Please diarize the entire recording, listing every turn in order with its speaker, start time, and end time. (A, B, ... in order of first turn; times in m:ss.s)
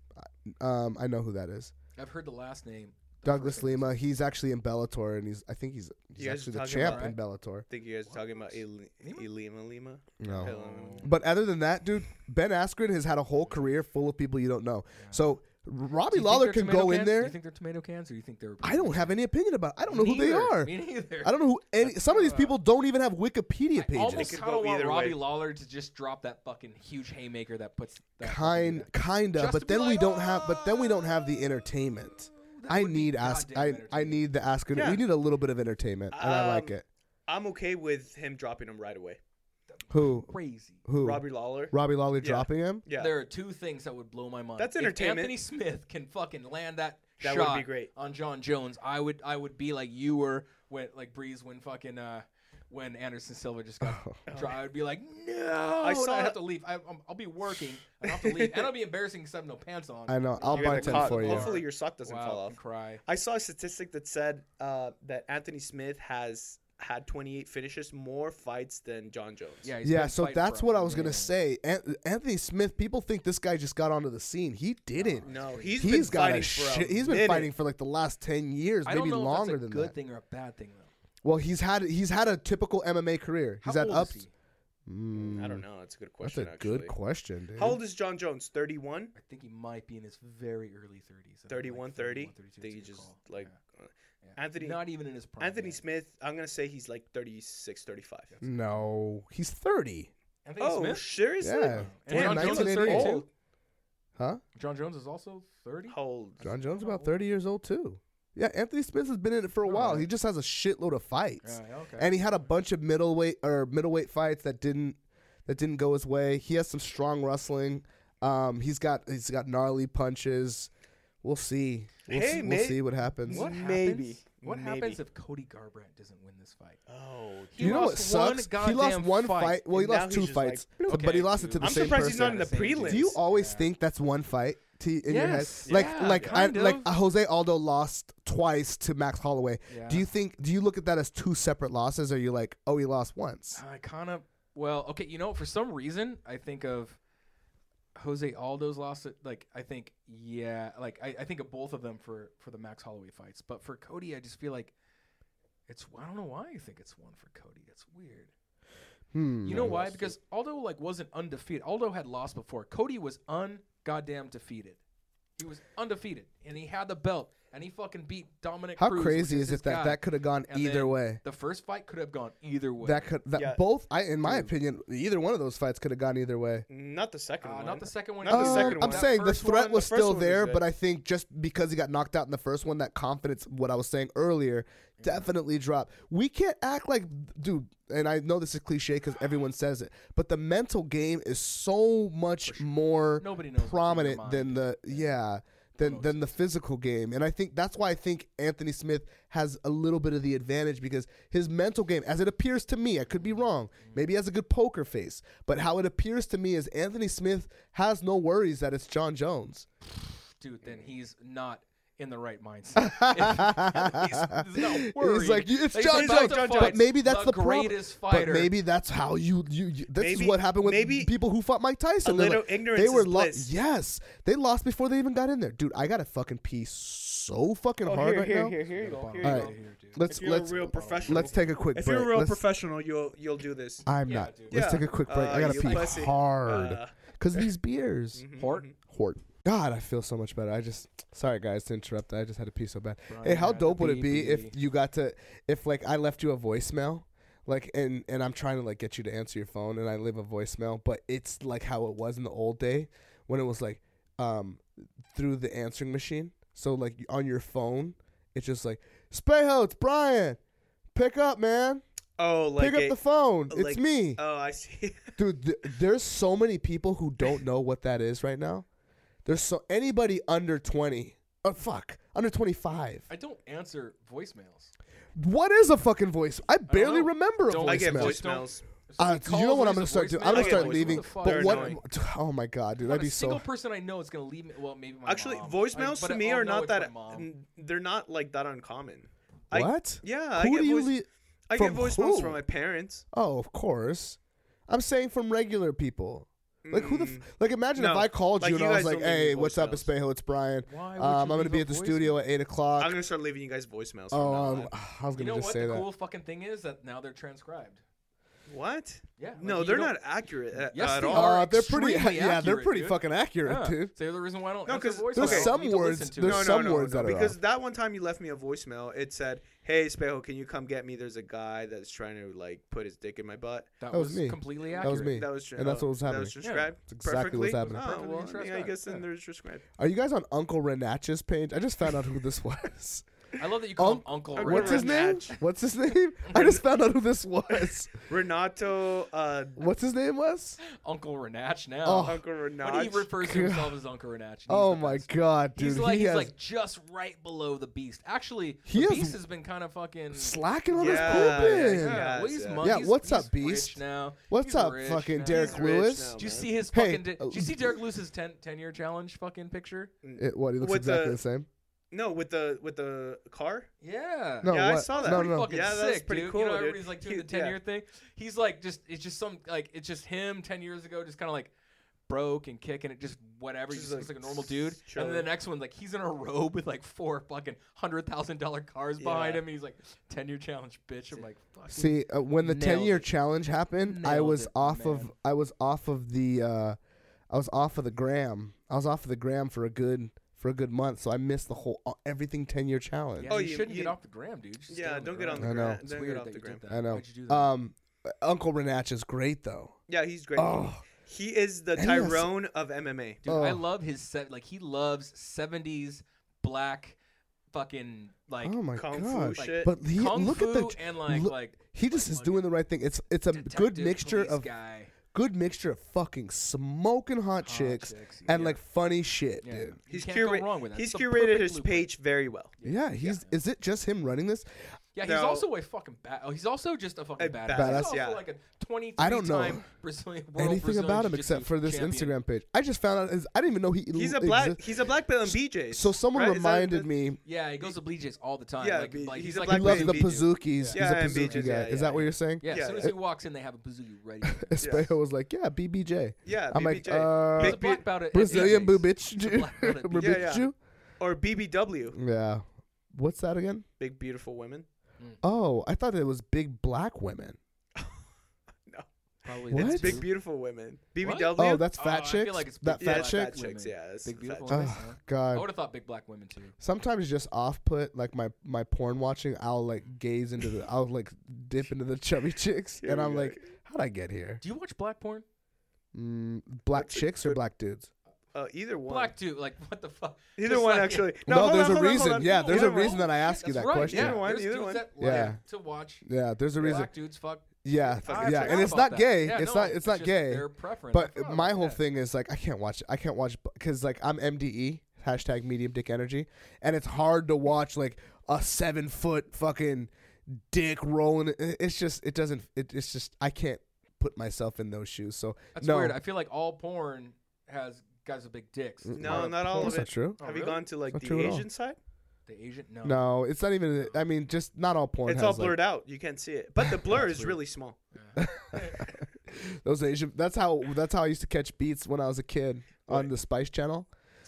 0:00.2-0:01.7 A
0:02.0-0:03.9 B
0:03.2-0:07.6 A
0:06.2-0:07.1 C
0:06.8-0:07.2 B
0:07.7-0:11.1 C
0:08.0-0:09.3 B
0:10.2-0:17.4 A
0:10.3-0:11.1 B
0:15.0-0:15.3 B
0:16.1-0:19.2 B
0:18.6-0:24.4 A
0:19.8-0:22.6 B
0:23.7-0:31.5 B
0:24.1-0:25.2 C
0:28.2-0:36.8 A
0:32.0-0:34.3 B
0:34.7-0:35.0 C
0:36.1-0:36.8 C
0:37.3-0:39.2 C
0:39.7-0:40.8 B
0:39.9-0:40.3 A
0:40.8-0:42.8 A
0:41.0-0:43.1 C
0:42.9-1:03.0 B
0:44.6-0:45.4 C
0:47.2-0:47.9 C
0:53.8-0:54.2 A
0:54.3-0:54.6 C
0:55.8-0:56.4 C
0:58.0-0:58.7 C
1:00.1-1:01.6 A
1:00.5-1:09.7 C
1:09.6-1:11.3 B
1:09.8-1:19.9 A
1:15.0-1:16.5 B
1:15.2-1:17.5 C
1:18.8-1:20.9 B
1:21.2-1:24.2 A
1:23.6-1:24.3 B
1:24.9-1:25.6 A
1:25.1-1:26.9 C
1:26.2-1:27.8 A
1:27.6-1:29.1 C
1:29.1-1:33.6 B
1:31.5-1:34.8 C
1:34.2-1:35.8 B
1:35.4-1:38.3 C
1:38.3-1:38.6 B
1:38.4-1:40.1 A
1:40.4-1:43.3 B
1:40.6-1:43.2 C
1:41.4-1:43.2 A
1:44.2-1:44.4 A
1:44.5-1:47.2 B
1:45.9-1:46.5 C
1:46.4-2:00.7 A
1:49.6-1:50.1 B
1:51.4-1:52.3 B
2:01.2-2:03.5 A
2:02.1-2:05.0 C
2:03.3-2:06.8 B
2:06.9-2:07.8 C
2:07.5-2:09.6 B
2:07.6-2:23.6 A
2:09.7-2:13.1 C
2:10.9-2:13.7 B
2:15.0-2:16.9 B
2:15.6-2:16.4 C
2:19.7-2:20.1 B
2:23.5-2:27.0 B
2:27.9-2:34.7 B
2:35.7-2:38.3 B
2:39.1-2:40.1 A
2:39.4-2:44.8 B
2:45.4-2:53.1 B
2:48.8-2:51.2 A
2:52.8-2:56.6 A
2:53.3-2:53.6 C
2:56.7-3:00.6 C
2:57.4-2:59.8 B
2:58.3-3:29.6 A
3:05.0-3:05.3 B
3:12.4-3:15.1 B
3:15.8-3:16.2 B
3:23.1-3:24.0 B
3:30.4-3:38.5 B
3:32.8-3:48.6 A
3:35.9-3:36.8 C
3:40.0-3:41.1 C
3:42.0-3:43.5 C
3:47.8-3:53.8 C
3:48.7-3:50.0 B
3:49.2-3:52.4 A
3:50.8-3:51.3 B
3:53.8-3:58.2 A
3:54.0-3:55.9 B
3:54.5-3:57.5 C
3:58.1-3:58.7 C
3:58.4-3:58.7 B
3:58.8-4:20.4 A
4:03.1-4:04.6 B
4:20.9-4:21.8 A
4:22.2-4:23.0 C
4:22.6-4:24.2 A
4:23.5-4:25.2 C
4:25.2-4:28.6 A
4:29.2-4:33.0 A
4:33.1-4:34.7 B
4:35.1-4:38.3 A
4:36.7-4:41.8 B
4:37.6-4:38.6 C
4:39.0-4:43.4 A
4:40.3-4:41.8 C
4:42.8-4:47.3 B
4:45.0-4:50.9 C
4:49.5-4:52.4 A
4:51.5-4:53.0 C
4:53.1-5:03.0 A
4:56.6-4:59.9 C
5:00.6-5:02.2 B
5:02.8-5:04.7 C
5:04.1-5:05.9 A
5:05.1-5:07.8 B
5:08.5-5:11.4 C
5:09.2-5:10.0 B
5:10.5-5:16.8 B
5:11.0-5:13.9 A
5:14.6-5:15.6 C
5:15.1-5:17.4 A
5:16.2-5:23.7 C
5:23.8-5:25.3 B
5:23.9-5:26.4 A
5:24.8-5:29.6 C
5:26.4-5:26.7 B
5:26.9-5:27.9 A
5:27.6-5:29.0 B
5:29.8-5:33.0 A
5:33.4-5:35.4 B
5:33.8-5:37.9 A
5:34.3-5:35.3 C
5:36.2-5:36.6 B
5:38.0-5:39.6 C
5:39.6-5:40.6 A
5:40.6-5:59.9 B
5:41.8-5:42.2 A
5:42.0-5:43.1 C
5:43.2-5:43.8 A
5:44.5-5:46.3 A
5:48.7-5:49.2 A
5:50.1-5:52.1 A
5:50.7-5:52.6 C
5:52.6-5:56.2 A
5:55.2-5:56.5 C
5:56.7-5:57.8 A
6:00.0-6:01.2 C
6:00.2-6:01.5 A
6:01.9-6:03.7 C
6:03.8-6:11.5 B
6:04.4-6:05.5 A
6:04.5-6:07.6 C
6:12.1-6:23.1 B
6:13.7-6:15.3 C
6:19.0-6:19.4 C
6:21.7-6:26.8 A
6:23.8-6:25.1 B
6:27.3-6:33.4 A
6:33.2-6:37.5 B
6:33.3-6:34.0 C
6:34.7-6:36.6 C
6:35.4-6:35.8 A
6:36.7-6:39.8 A
6:39.9-6:43.2 C
6:40.4-6:40.8 A
6:41.8-6:42.3 A
6:43.2-6:47.0 B
6:43.2-6:43.6 A
6:47.5-6:48.6 B
6:48.4-6:54.5 A
6:48.7-6:49.7 C
6:49.4-6:52.5 B
6:53.3-6:54.9 B
6:55.1-6:59.8 A
6:57.4-6:58.6 B
6:59.4-7:01.9 B
6:59.9-7:02.5 C
7:02.6-7:03.4 B
7:02.6-7:04.4 A
7:04.9-7:12.2 B
7:05.0-7:05.4 C
7:07.2-7:08.2 C
7:07.5-7:07.9 A
7:09.0-7:09.6 A
7:10.4-7:14.6 A
7:13.9-7:16.9 C
7:15.2-7:17.2 A
7:17.2-7:24.8 B
7:18.6-7:22.9 C
7:19.5-7:22.9 A
7:24.4-7:30.5 A
7:24.6-7:24.9 C
7:26.2-7:28.6 C
7:27.4-7:30.4 B
7:30.0-7:32.0 C
7:31.9-7:33.6 A
7:33.8-7:34.7 C
7:35.2-7:37.4 A
7:37.8-7:38.0 C
7:38.7-7:41.7 C
7:39.2-7:40.1 B
7:39.5-7:40.0 A
7:41.0-7:46.5 B
7:41.4-7:43.3 A
7:42.8-7:44.7 C
7:44.5-7:45.4 A
7:46.6-7:54.4 A
7:52.8-7:53.4 C
7:54.4-7:55.2 B
7:55.9-7:57.9 A
7:56.7-7:57.4 C
7:58.3-7:59.1 C
7:58.8-8:06.0 B
8:00.4-8:03.1 C
8:01.2-8:04.3 A
8:03.9-8:05.3 C
8:05.0-8:05.4 A
8:06.0-8:06.9 A
8:06.6-8:11.8 B
8:07.6-8:26.0 A
8:08.0-8:08.8 C
8:25.5-8:30.6 B
8:28.8-8:30.2 A
8:28.9-8:31.8 C
8:30.9-8:31.4 A
8:32.3-8:33.0 B
8:32.8-8:35.6 A
8:35.0-8:37.8 C
8:36.6-8:37.4 A
8:37.9-8:38.9 B
8:38.2-8:43.9 A